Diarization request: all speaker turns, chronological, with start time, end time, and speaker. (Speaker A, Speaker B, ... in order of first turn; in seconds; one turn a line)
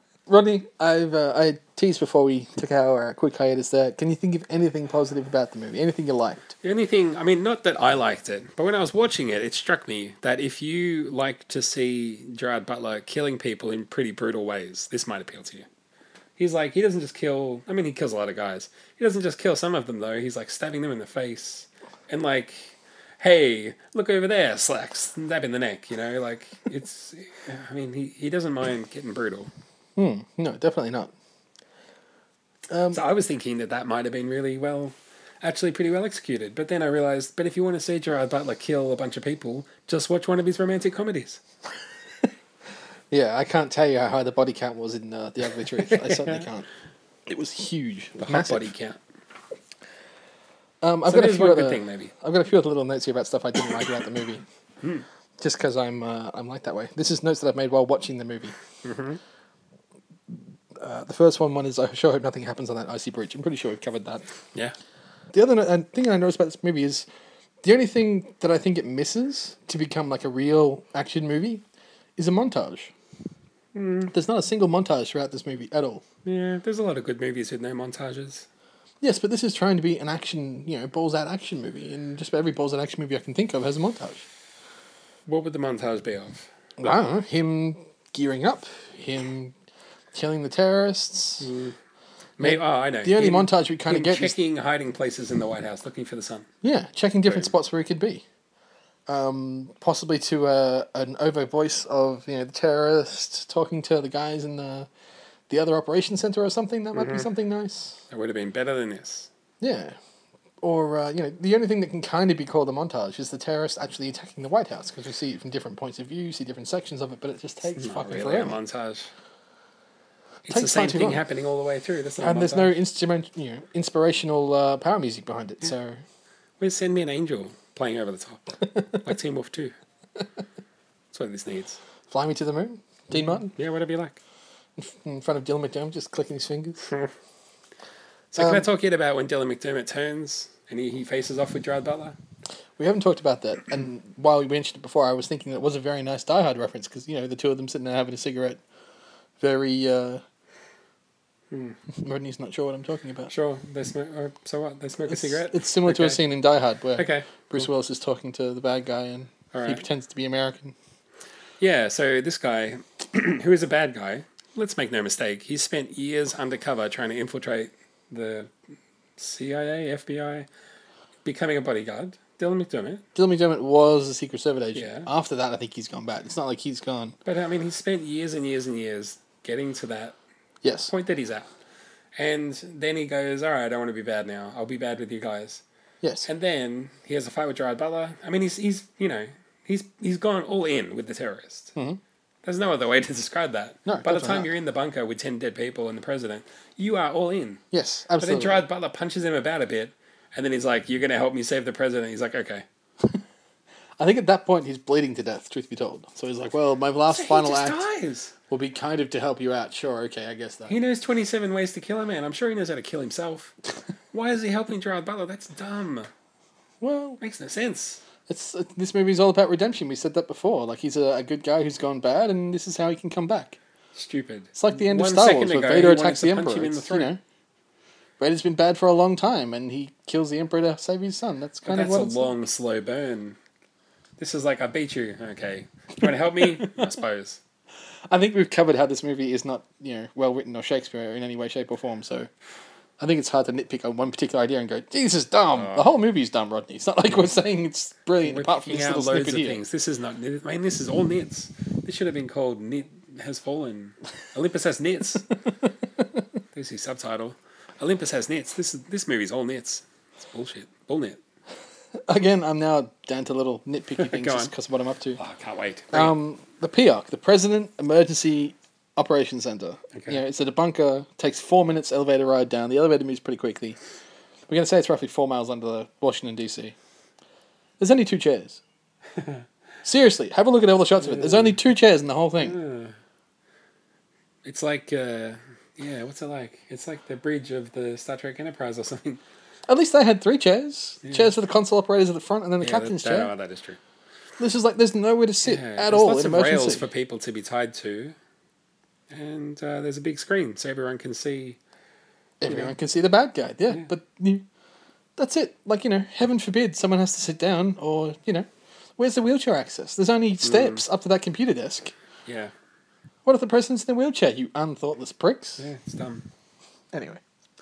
Speaker A: 0.3-6.5
Speaker B: 6.6-15.7
Speaker B: 16.4-29.5
Speaker A: 29.9-31.1
Speaker A: 32.7-33.0
Speaker B: 32.9-41.4
Speaker A: 43.1-46.6
Speaker B: 45.8-46.5
Speaker A: 47.3-48.7
Speaker B: 48.2-49.0
Speaker A: 50.8-54.4
Speaker B: 51.0-52.1
Speaker A: 55.4-58.5
Speaker B: 58.8-59.2
Speaker A: 60.7-64.2
Speaker A: 65.3-67.1
Speaker A: 67.6-71.6
Speaker A: 72.2-72.9
Speaker B: 73.7-74.1
Speaker A: 74.1-76.0
Speaker B: 76.2-78.5
Speaker A: 79.0-84.2
Speaker B: 85.3-86.5
Speaker A: 86.8-89.5
Speaker A: 90.1-91.5
Speaker B: 91.4-91.7
Speaker B: 92.4-96.5
Speaker A: 92.4-94.3
Speaker A: 96.6-98.2
Speaker A: 99.1-104.9
Speaker A: 105.5-108.0
Speaker B: 106.9-107.3
Speaker B: 108.1-109.3
Speaker A: 109.6-110.0
Speaker A: 110.6-118.6
Speaker B: 117.8-119.1
Speaker A: 120.5-121.2
Speaker B: 120.5-122.8
Speaker A: 122.2-126.0
Speaker B: 126.6-129.7
Speaker B: 131.1-131.8
Speaker A: 132.1-133.5
Speaker B: 133.1-134.2
Speaker A: 134.8-136.9
Speaker B: 138.3-142.2
Speaker A: 138.4-138.7
Speaker A: 142.8-148.6
Speaker A: 149.4-150.2
Speaker B: 151.5-151.8
Speaker A: 152.0-153.3
Speaker B: 153.3-156.2
Speaker A: 155.1-160.7
Speaker B: 157.0-157.5
Speaker B: 159.5-159.8
Speaker B: 161.6-168.5
Speaker B: 169.2-170.5
Speaker B: 171.2-173.0
Speaker A: 173.1-177.2
Speaker B: 174.7-175.1
Speaker B: 177.2-180.2
Speaker A: 180.6-180.9
Speaker B: 180.9-181.5
Speaker B: 182.2-185.6
Speaker A: 186.0-186.3
Speaker B: 186.2-191.7
Speaker B: 192.4-197.6
Speaker A: 193.8-194.5
Speaker A: 197.7-198.6
Speaker B: 198.2-202.6
Speaker A: 204.0-207.8
Speaker B: 207.1-208.3
Speaker A: 208.5-210.7
Speaker B: 210.7-213.5
Speaker B: 214.1-216.1
Speaker A: 216.8-217.2
Speaker B: 217.2-218.0
Speaker A: 218.3-223.6
Speaker B: 223.9-227.1
Speaker A: 224.5-227.2
Speaker A: 228.2-232.3
Speaker B: 231.6-233.4
Speaker B: 234.2-237.4
Speaker A: 238.1-242.3
Speaker A: 243.0-249.6
Speaker B: 245.5-245.9
Speaker B: 248.2-255.3
Speaker B: 256.5-261.2
Speaker A: 262.1-265.2
Speaker B: 264.0-264.5
Speaker B: 265.2-266.1
Speaker A: 265.9-273.8
Speaker B: 269.9-270.2
Speaker A: 274.5-276.7
Speaker A: 277.8-278.6
Speaker B: 279.1-279.4
Speaker A: 279.8-282.6
Speaker B: 281.0-281.6
Speaker B: 282.4-282.9
Speaker B: 284.4-289.2
Speaker A: 289.7-293.3
Speaker B: 291.0-291.3
Speaker B: 292.6-293.8
Speaker A: 294.4-296.9
Speaker B: 295.4-298.1
Speaker B: 299.1-301.6
Speaker A: 302.4-304.4
Speaker A: 305.2-311.9
Speaker B: 310.4-310.8
Speaker B: 312.2-312.5
Speaker A: 313.2-315.6
Speaker B: 315.6-316.2
Speaker A: 316.9-317.2